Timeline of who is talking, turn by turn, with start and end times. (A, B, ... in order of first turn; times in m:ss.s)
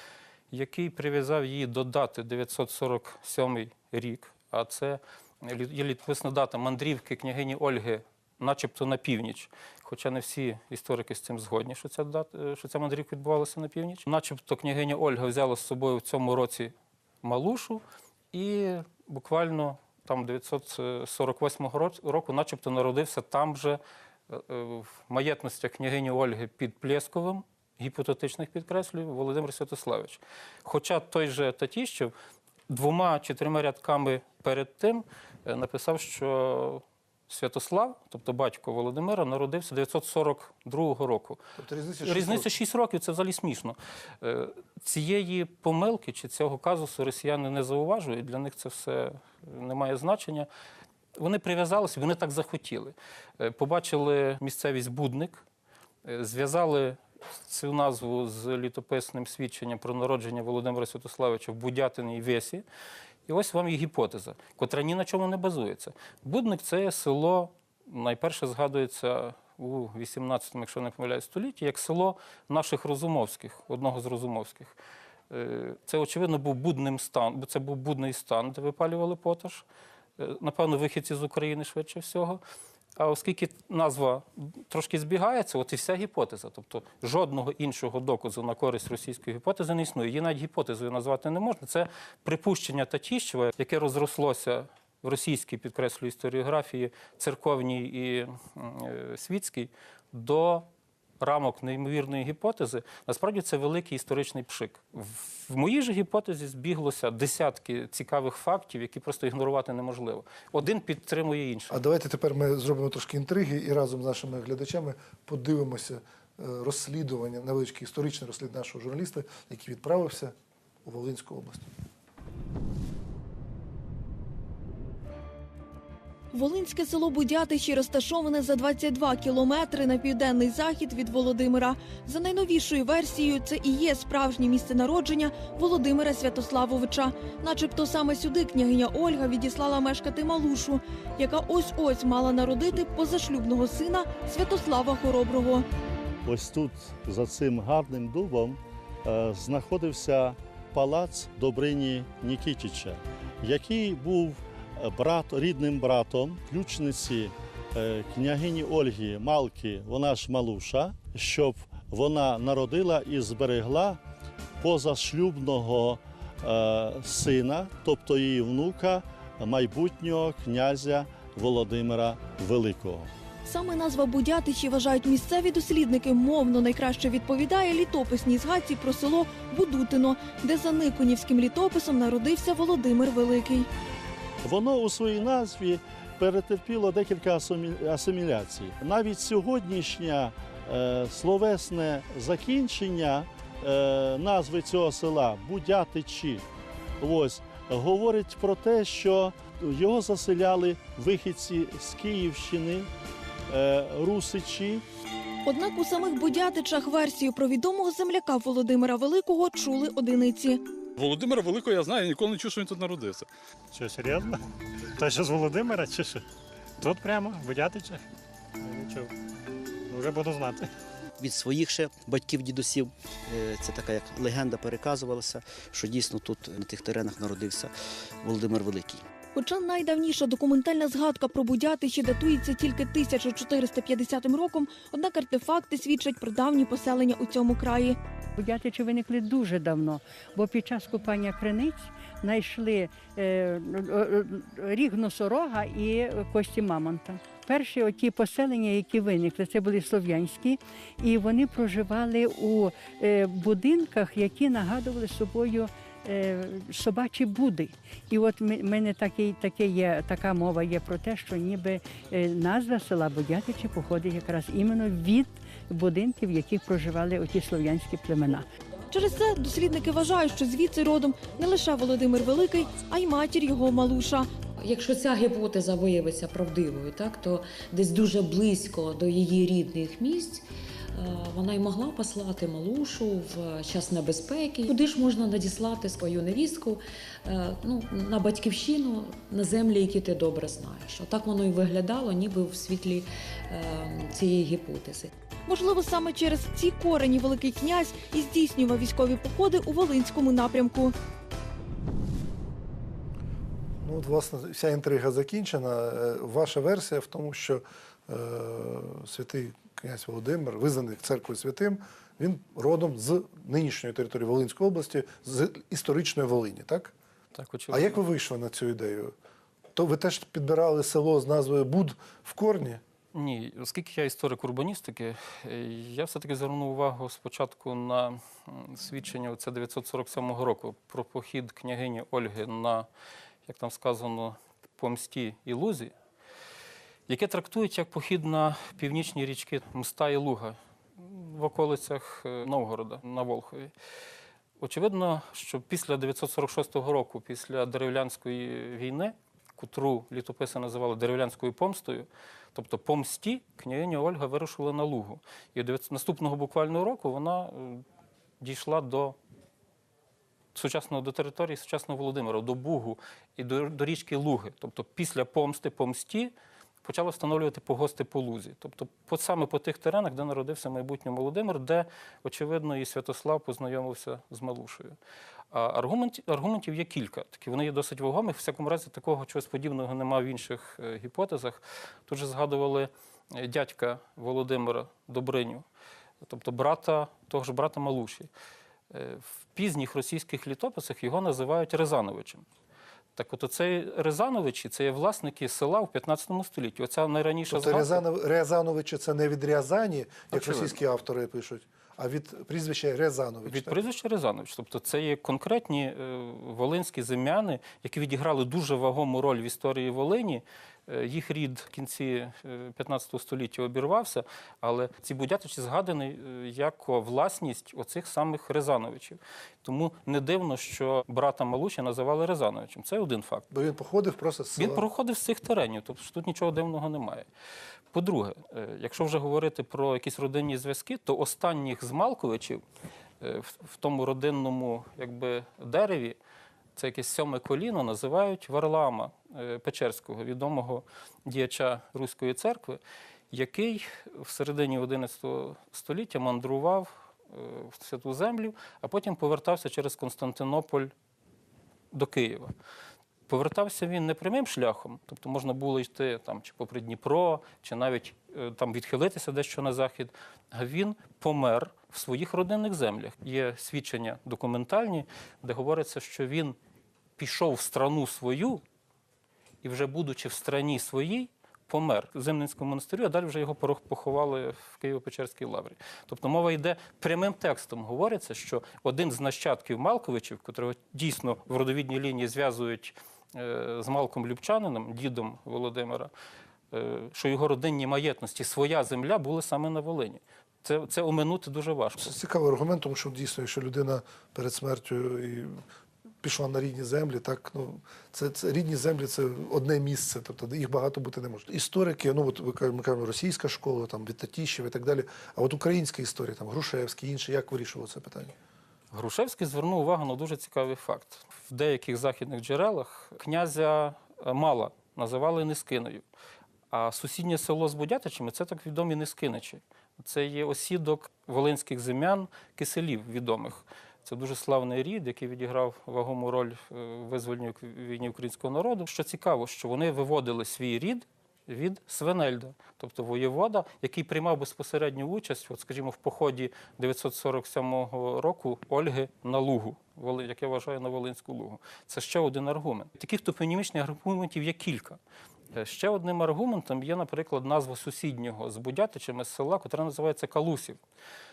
0:00.5-0:17.8 A
0:18.3-0:32.1 A
0:32.7-0:41.4 A
0:41.6-0:42.5 B
0:42.0-0:50.5 A
0:51.2-0:55.4 A
0:56.0-1:02.6 A
1:03.3-1:14.8 A
1:15.3-1:19.6 A
1:20.2-1:22.4 A
1:23.0-1:40.7 A
1:41.2-1:51.8 A
1:51.7-2:01.7 B
2:06.3-2:25.6 C
2:26.2-2:44.0 D
2:44.6-2:53.1 D
2:53.4-3:03.7 C
3:04.4-3:16.4 D
3:17.0-3:22.9 D
3:23.5-3:24.8 D
3:25.4-3:30.6 C
3:31.0-3:33.2 E
3:33.7-3:34.4 F
3:35.0-3:36.2 F
3:36.8-3:38.0 F
3:38.6-3:39.1 F
3:39.9-3:40.7 F
3:41.2-3:49.0 G
3:49.4-3:58.0 C
3:58.4-4:28.5 H
4:28.9-4:34.3 C
4:34.6-4:55.1 I
4:55.5-5:00.9 C
5:03.8-5:16.9 B
5:17.3-5:18.0 A
5:17.7-5:19.1 B
5:19.8-5:22.8 B
5:23.1-5:32.9 A
5:33.4-5:35.9 A
5:37.1-5:43.7 A
5:44.6-5:57.8 A
5:58.4-5:59.2 A
6:00.6-6:06.3 A
6:06.8-6:15.0 A
6:15.5-6:25.6 A
6:26.2-6:28.3 A
6:28.9-6:32.4 A
6:33.2-6:38.0 A
6:37.5-6:43.8 B
6:40.3-6:40.8 A
6:43.4-7:03.5 A
7:03.5-7:04.8 B
7:04.6-7:07.3 A
7:07.9-7:12.6 A
7:13.2-7:16.2 A
7:16.8-7:30.9 A
7:31.9-7:32.5 A
7:33.3-7:46.6 A
7:47.2-7:48.6 A
7:49.6-8:06.1 A
8:06.7-8:12.1 A
8:12.0-8:15.6 B
8:16.2-8:28.3 B
8:28.9-8:36.0 A
8:36.7-9:05.0 A
9:05.5-9:10.8 A